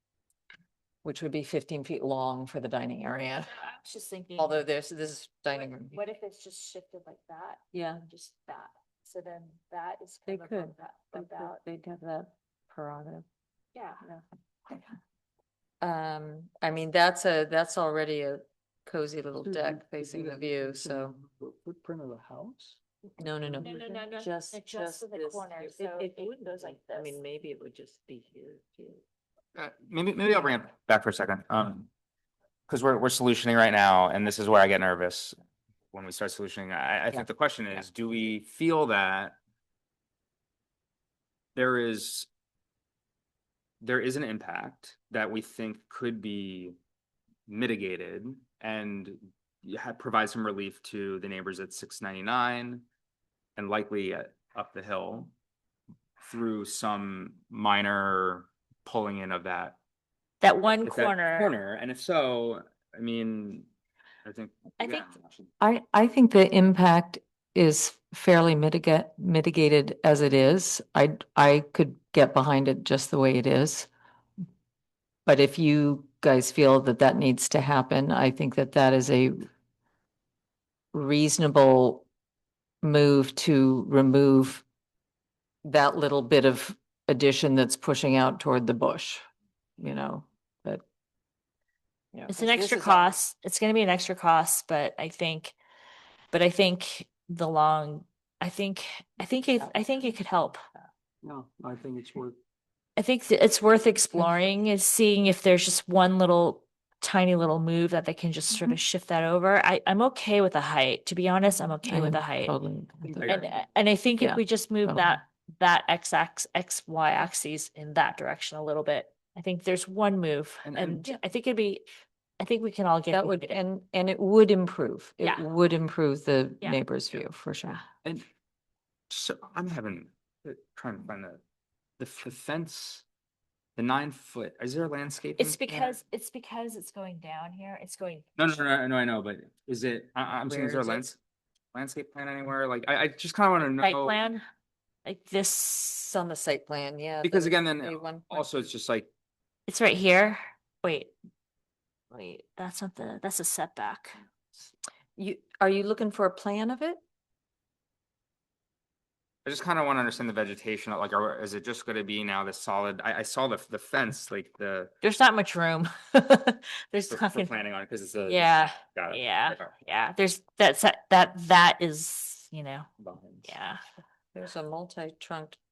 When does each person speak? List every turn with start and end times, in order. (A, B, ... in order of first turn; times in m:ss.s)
0:01.0-0:03.5 A
0:03.5-0:04.6 B
0:04.4-0:06.0 A
0:05.5-0:11.6 B
0:07.7-0:08.0 A
0:10.2-0:13.2 A
0:13.7-0:14.0 B
0:14.0-0:14.8 A
0:15.8-0:21.2 A
0:19.4-0:22.8 C
0:23.2-0:29.0 A
0:23.6-0:27.2 B
0:29.5-0:31.9 D
0:32.7-0:35.4 D
0:35.9-0:39.4 D
0:41.6-0:42.3 D
0:43.8-0:46.8 D
0:47.5-0:52.8 D
0:53.6-0:55.3 D
0:56.2-0:59.8 D
1:00.4-1:01.5 B
1:00.8-1:03.7 D
1:04.2-1:05.5 D
1:04.8-1:05.1 B
1:05.6-1:13.9 A
1:15.2-1:19.5 A
1:20.9-1:22.0 A
1:22.8-1:24.6 A
1:25.6-1:29.2 A
1:29.8-1:30.8 A
1:32.1-1:33.2 A
1:32.3-1:35.6 B
1:36.3-1:40.6 B
1:41.2-1:42.4 C
1:43.0-1:52.5 B
1:51.8-1:53.4 A
1:53.2-1:53.5 D
1:53.2-2:01.8 B
1:54.2-1:55.2 A
2:00.6-2:01.1 D
2:02.4-2:03.6 B
2:03.1-2:07.8 A
2:09.1-2:11.4 D
2:12.0-2:13.0 D
2:13.8-2:15.6 D
2:15.4-2:18.4 B
2:15.7-2:16.0 A
2:18.4-2:21.2 D
2:20.5-2:21.1 A
2:21.7-2:24.2 D
2:23.8-2:24.4 B
2:25.0-2:26.1 B
2:26.1-2:28.6 A
2:27.2-2:29.1 D
2:29.7-2:31.1 B
2:32.1-2:34.2 B
2:35.2-2:37.0 A
2:39.4-2:44.9 D
2:45.0-2:47.5 B
2:47.1-2:49.8 D
2:48.2-2:52.9 B
2:53.0-2:53.6 D
2:53.4-2:53.8 B
2:54.3-2:55.6 A